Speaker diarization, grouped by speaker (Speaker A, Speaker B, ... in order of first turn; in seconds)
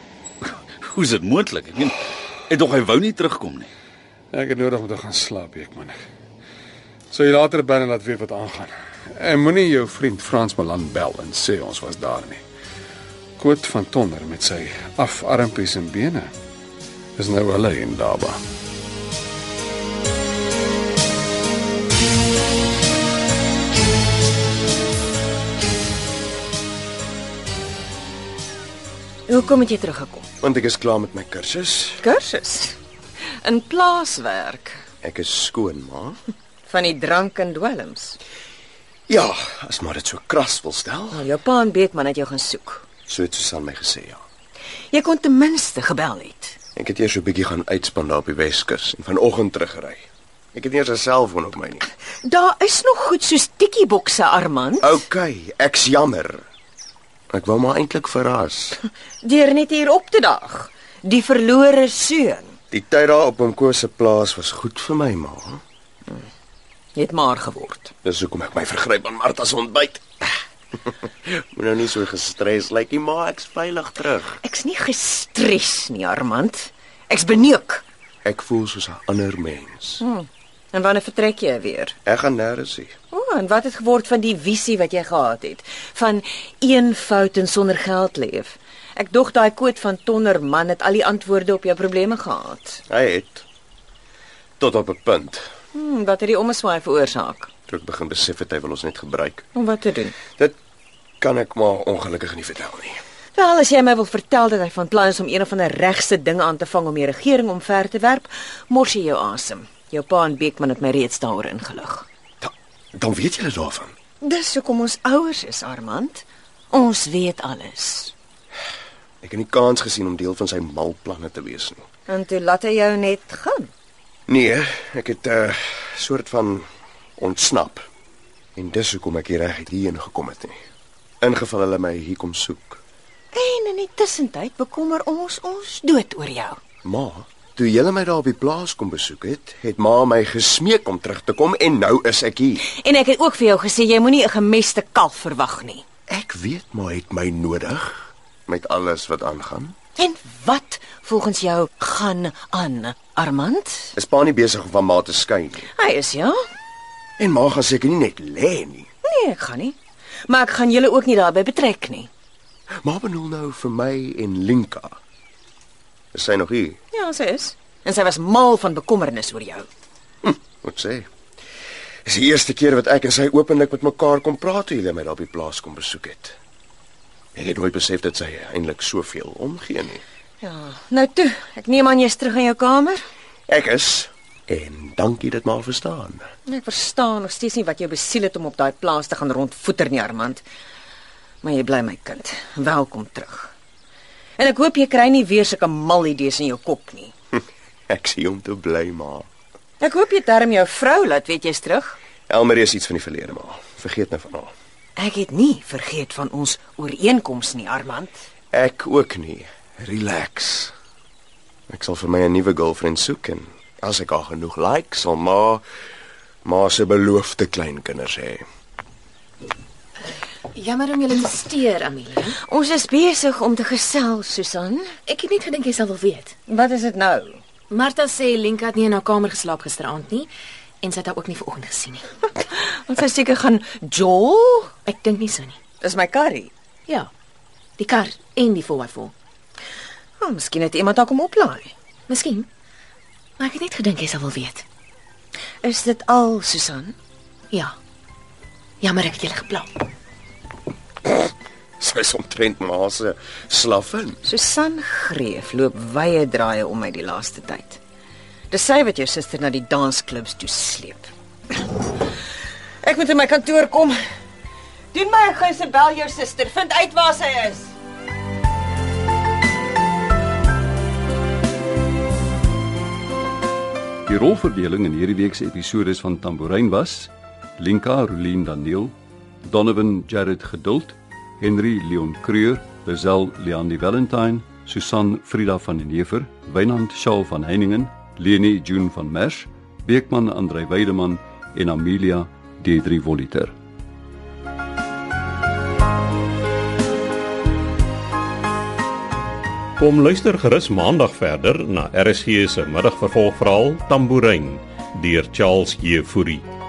Speaker A: 0.4-1.9, 2.5-3.7
Speaker B: 4.3-6.0, 7.1-12.4, 13.4-16.3, 17.2-18.4
Speaker C: 29.3-30.3, 32.0-32.8, 33.4-34.8, 36.7-38.2, 41.1-42.8, 44.9-46.6, 52.2-55.0, 59.2-62.5, 66.9-67.9, 74.4-77.8, 80.0-81.9, 83.1-92.8, 95.7-97.5, 99.5-100.1, 103.4-112.0, 114.2-118.1, 122.1-123.7, 133.3-136.6, 142.7-145.8, 150.0-153.8, 155.8-156.3, 159.0-162.1, 166.9-169.7, 180.4-183.0, 186.5-190.4, 191.4-193.5, 194.4-197.1, 199.8-201.9, 205.0-208.2, 222.5-224.9, 226.5-227.4, 233.0-234.6, 235.8-236.5, 240.2-241.7, 245.6-246.9, 254.3-257.8, 258.5-261.0, 262.9-263.9, 264.9-267.5
Speaker D: 30.4-32.0, 35.0-36.2, 39.1-41.3, 43.1-44.2, 46.8-51.8, 54.8-56.4, 57.3-58.8, 62.7-65.6, 68.0-70.3, 70.9-74.4, 78.2-80.0, 82.0-83.0, 92.9-93.5, 94.6-95.5, 97.7-99.4, 101.2-103.0, 112.4-113.9, 119.2-121.8, 124.3-126.7, 127.2-127.9, 128.6-130.6, 131.2-132.8, 136.8-142.6, 146.1-149.7, 153.9-155.7, 157.2-158.9, 162.8-164.9, 166.1-166.8, 170.2-171.1, 172.0-176.4, 177.3-180.0, 183.5-186.3, 197.9-199.3, 202.3-204.5, 208.5-210.7, 211.7-215.6, 216.4-218.4, 251.8-254.2
Speaker E: 220.5-222.4, 225.0-226.3, 227.7-230.3, 230.8-232.3, 234.7-235.6, 237.8-239.1, 242.1-242.4, 243.4-244.6, 248.8-249.7
Speaker F: 274.1-293.5
Speaker G: 299.8-306.4